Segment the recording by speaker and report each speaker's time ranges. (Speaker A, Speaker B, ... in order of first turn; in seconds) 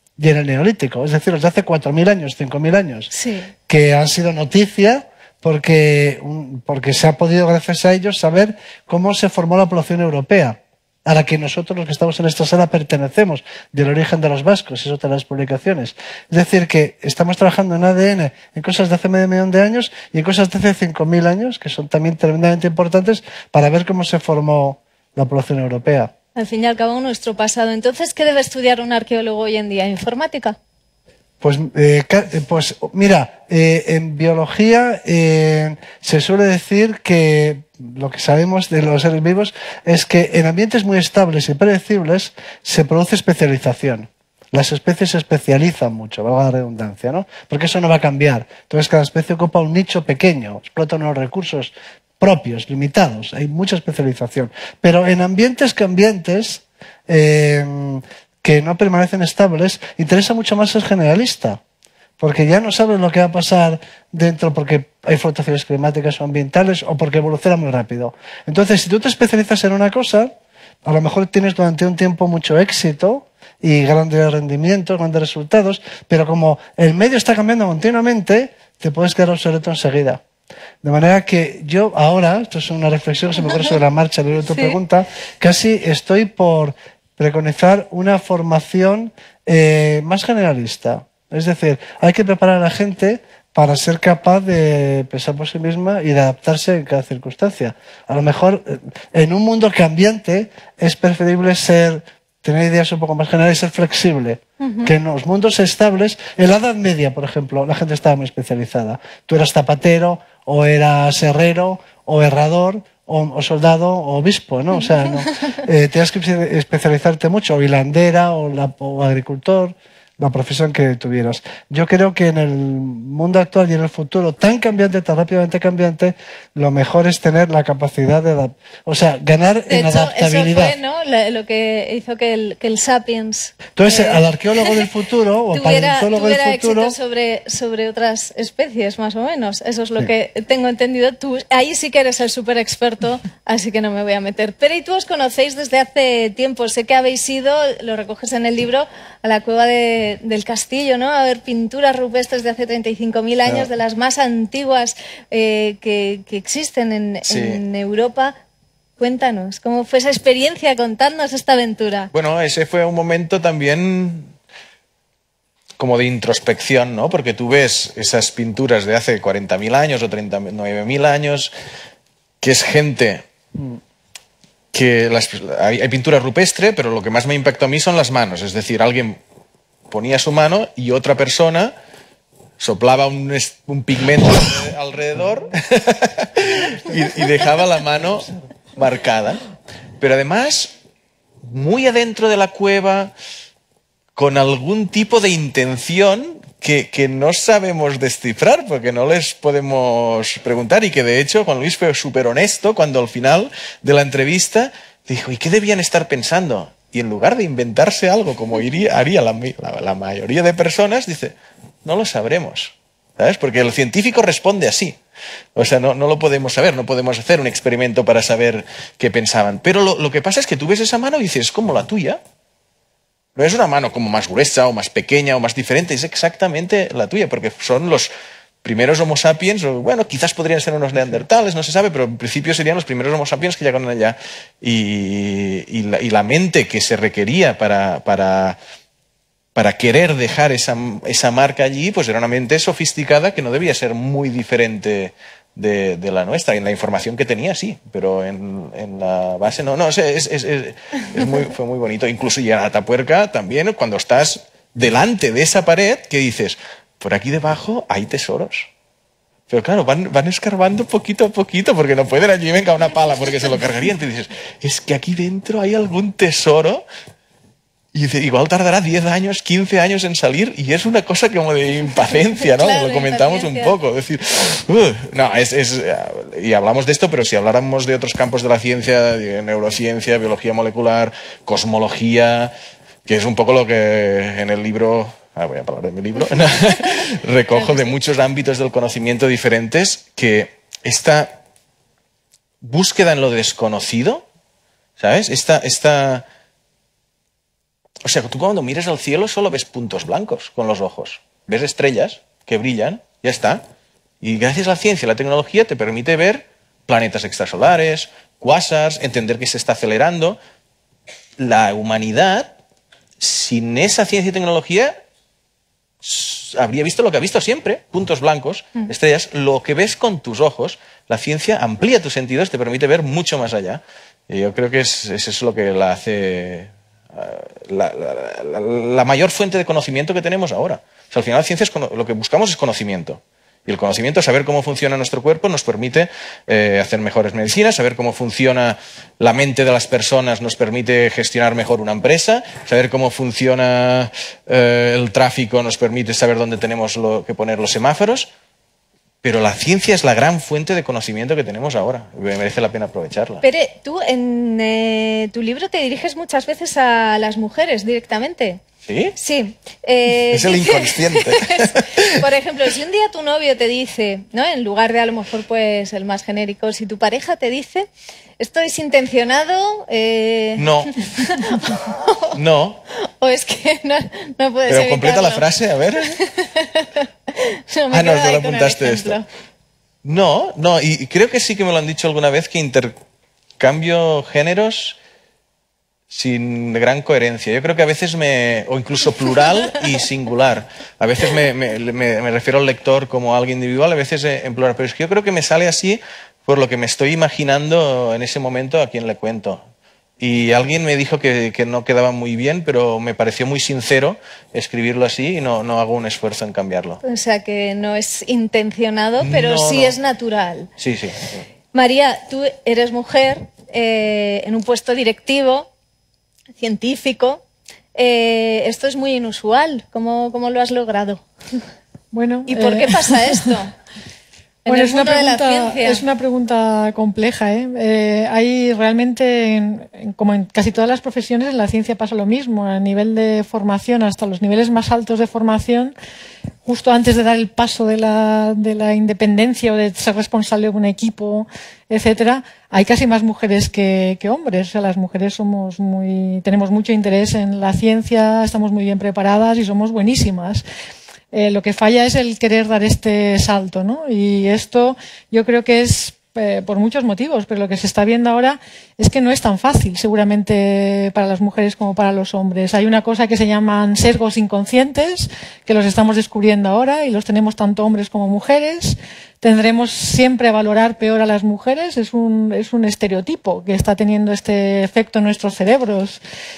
Speaker A: 0.2-3.1, 3.7-26.1, 31.4-61.6, 62.2-70.3, 70.8-80.2, 80.8-130.7, 133.8-136.9
Speaker B: 3.1-3.5, 26.4-30.6, 84.5-84.8, 104.6-104.9, 129.7-134.2, 135.5-158.4, 159.0-162.1, 272.6-273.8, 287.5-287.9, 353.4-358.6, 359.1-367.9, 368.4-372.3, 373.2-375.4, 376.2-379.2, 407.0-410.7, 411.7-415.7, 416.6-417.4, 417.9-421.2, 422.5-423.7, 424.6-426.0
Speaker C: 157.2-157.6, 162.1-164.3, 165.8-171.5, 172.4-173.3, 174.7-179.2, 179.9-181.7, 182.6-189.4, 190.0-190.7, 191.4-193.1, 194.2-215.0, 215.6-222.2, 223.4-228.1, 228.6-238.6, 239.6-258.7, 259.5-266.8, 267.9-282.5, 283.1-291.4, 292.6-294.2, 295.0-296.2, 298.0-303.6, 304.2-310.4, 311.4-312.6, 313.2-314.9, 316.0-348.3, 349.2-353.4, 358.9-359.1, 360.3-362.2, 370.6-370.9, 372.3-372.8, 374.7-376.1, 377.9-379.2, 380.0-382.9, 383.6-385.0, 386.1-399.6, 400.2-407.0, 409.2-409.9, 410.8-411.4
Speaker D: 422.1-423.5, 424.7-435.9, 436.6-450.6, 451.3-476.2